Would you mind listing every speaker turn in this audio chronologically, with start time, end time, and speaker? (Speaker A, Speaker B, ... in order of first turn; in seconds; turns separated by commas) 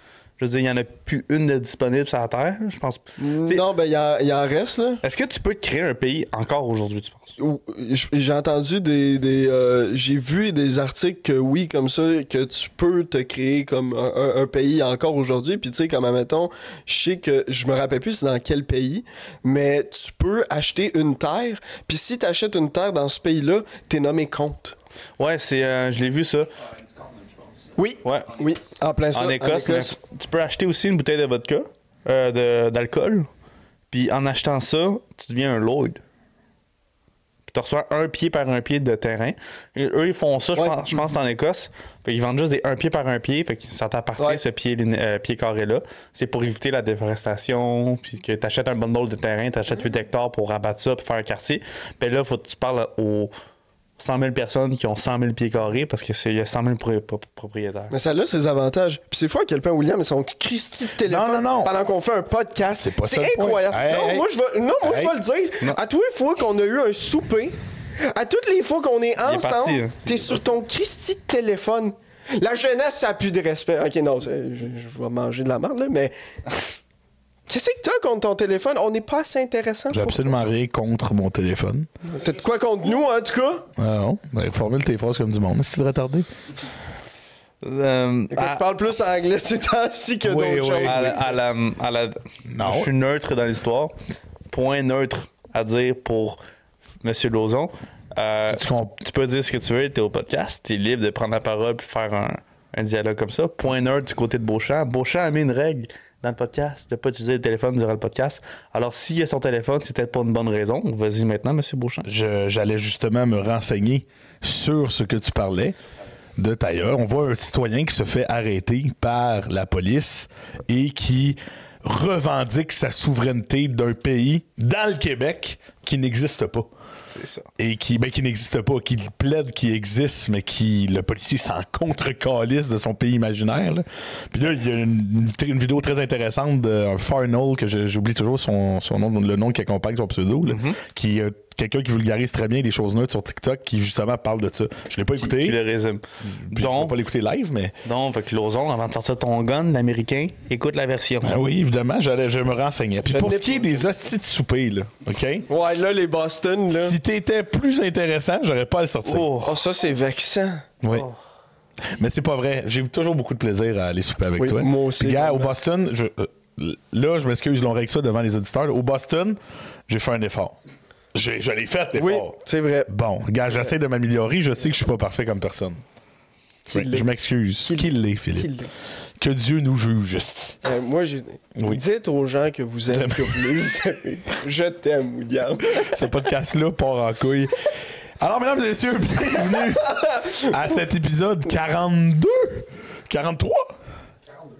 Speaker A: 0.4-3.6, Speaker B: 3.2-5.0, Speaker A: 5.0-7.3, Speaker B: 7.4-24.8, Speaker A: 25.2-26.5, Speaker B: 27.8-29.9, Speaker A: 28.0-28.3, Speaker A: 29.1-33.3, Speaker A: 33.9-36.0, Speaker A: 37.5-53.3, Speaker A: 54.0-57.9, Speaker B: 57.9-76.1, Speaker C: 61.1-61.7, Speaker C: 62.7-64.2, Speaker C: 64.8-65.1, Speaker A: 69.2-70.1, Speaker B: 77.5-80.3, Speaker C: 79.9-81.9, Speaker B: 82.0-83.7, Speaker C: 83.8-86.3, Speaker A: 87.6-88.6, Speaker B: 88.3-91.3, Speaker C: 90.2-91.2, Speaker A: 90.8-94.0, Speaker C: 92.5-92.9, Speaker A: 94.5-96.4, Speaker A: 97.0-112.1, Speaker C: 98.5-98.9, Speaker C: 112.0-115.8, Speaker C: 116.4-126.7, Speaker A: 127.1-127.5, Speaker C: 127.6-145.6, Speaker A: 140.4-140.8, Speaker A: 145.2-147.0, Speaker C: 146.2-147.7, Speaker A: 147.8-151.4, Speaker C: 151.2-155.5, Speaker B: 153.1-153.9, Speaker B: 155.5-156.9, Speaker C: 156.7-159.3, Speaker A: 159.0-159.6, Speaker B: 159.4-160.7, Speaker C: 160.8-161.1, Speaker C: 161.9-170.6, Speaker B: 164.4-165.5, Speaker C: 171.1-175.8, Speaker B: 171.9-172.9, Speaker C: 176.7-178.5, Speaker B: 176.7-178.7, Speaker C: 179.2-180.6, Speaker B: 180.6-186.0, Speaker C: 181.6-181.8, Speaker C: 182.9-183.7, Speaker C: 185.8-193.7